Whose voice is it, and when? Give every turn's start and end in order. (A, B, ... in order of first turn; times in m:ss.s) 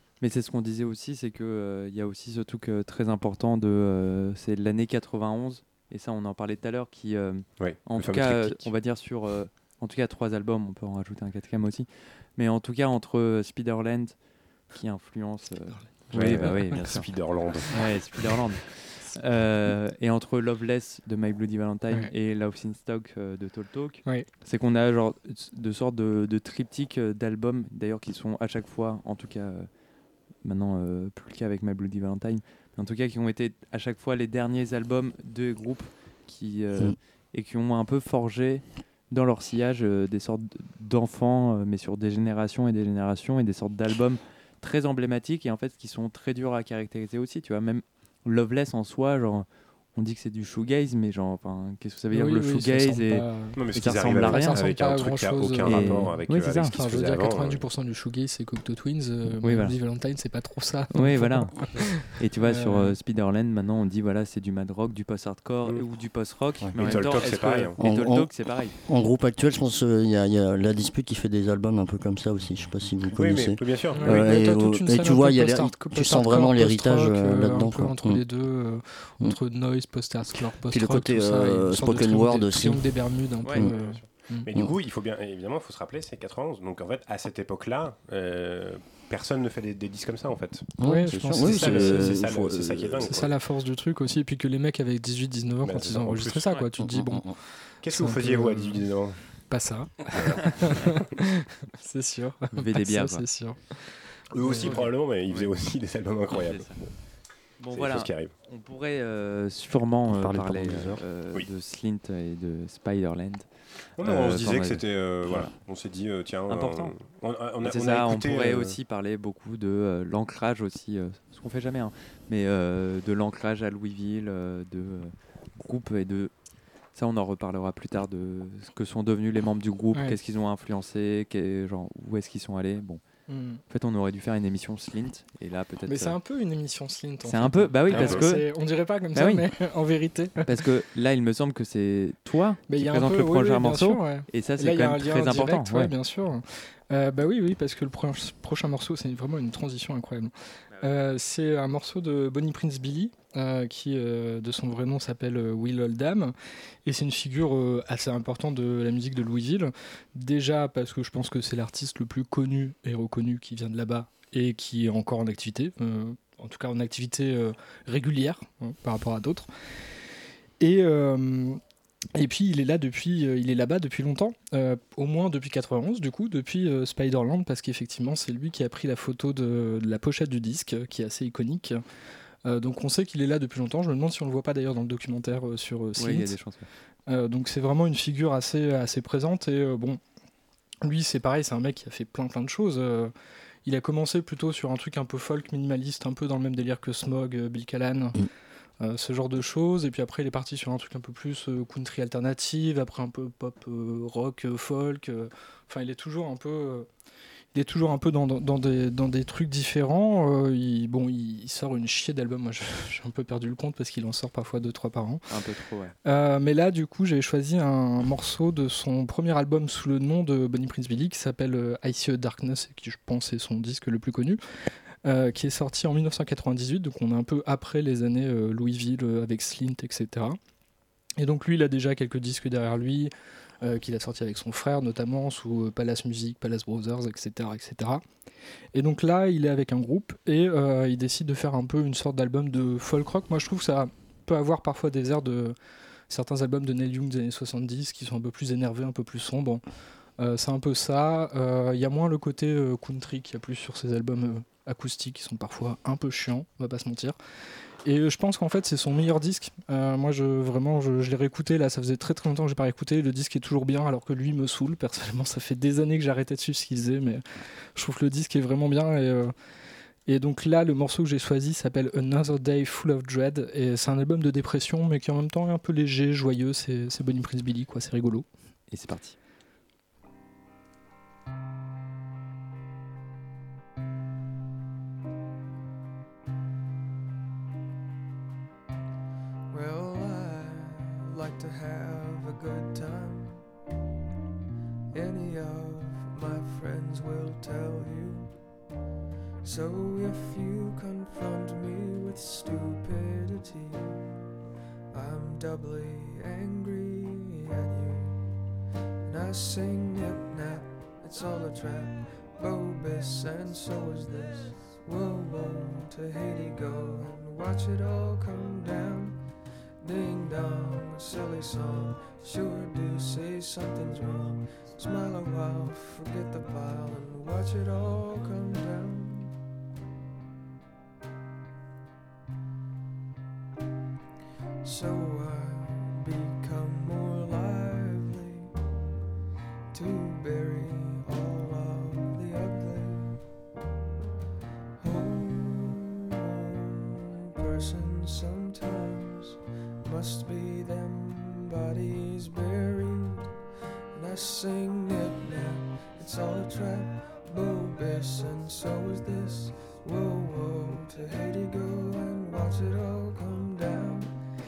0:00.2-0:14.2 A
0:07.6-0:08.7 B
0:14.7-0:17.1 A
0:16.1-0:18.3 B
0:17.7-0:29.7 A
0:30.4-0:54.6 A
0:52.1-0:53.6 C
0:53.6-0:57.6 B
0:54.1-0:56.2 C
0:55.6-0:56.8 A
0:56.7-1:03.0 C
0:59.4-0:59.8 A
1:00.9-1:08.8 A
1:06.6-1:07.0 D
1:06.8-1:07.8 B
1:07.8-1:18.3 D
1:13.1-1:14.2 B
1:13.9-1:24.5 C
1:20.5-1:23.7 D
1:23.4-1:23.7 A
1:23.6-1:30.7 B
1:30.8-1:33.2 D
1:30.8-1:32.2 C
1:31.2-1:33.3 B
1:33.1-1:38.9 C
1:35.6-1:36.5 B
1:36.8-1:37.4 D
1:37.8-1:39.4 B
1:39.5-1:44.9 C
1:40.1-1:41.0 B
1:42.6-1:43.3 A
1:44.3-1:46.9 B
1:44.6-1:45.5 A
1:46.3-1:46.9 A
1:47.6-1:55.5 A
1:47.7-1:48.3 B
1:50.1-1:51.0 D
1:54.0-1:58.8 B
1:56.5-1:57.0 A
1:57.6-2:06.3 A
2:06.9-2:13.0 A
2:13.3-2:13.6 C
2:13.7-2:16.2 A
2:15.9-2:20.5 C
2:17.2-2:18.5 A
2:17.9-2:18.3 B
2:19.2-2:19.5 A
2:20.5-2:25.9 A
2:22.7-2:49.5 C
2:50.6-2:51.6 C
2:52.2-3:01.8 C
3:02.4-3:06.4 C
3:06.0-3:06.7 A
3:07.1-3:10.0 C
3:10.8-3:13.1 C
3:13.6-3:18.2 C
3:18.8-3:26.9 C
3:27.5-3:35.3 C
3:35.3-3:36.0 A
3:36.0-3:44.4 C
3:45.0-3:50.4 C
3:51.2-3:58.0 C
3:58.7-4:05.6 C
4:06.1-4:09.6 C
4:10.2-4:17.2 C
4:17.8-4:27.2 C
4:27.8-4:29.3 C
4:30.1-4:38.3 C
4:38.7-4:39.2 A
4:49.5-4:53.5 E
4:54.9-4:58.4 E
4:59.4-5:04.2 E
5:04.9-5:08.2 E
5:09.0-5:19.2 E
5:19.8-5:29.3 E
5:34.6-5:38.6 E
5:39.7-5:43.2 E
5:44.8-5:53.4 E
5:53.9-6:04.1 E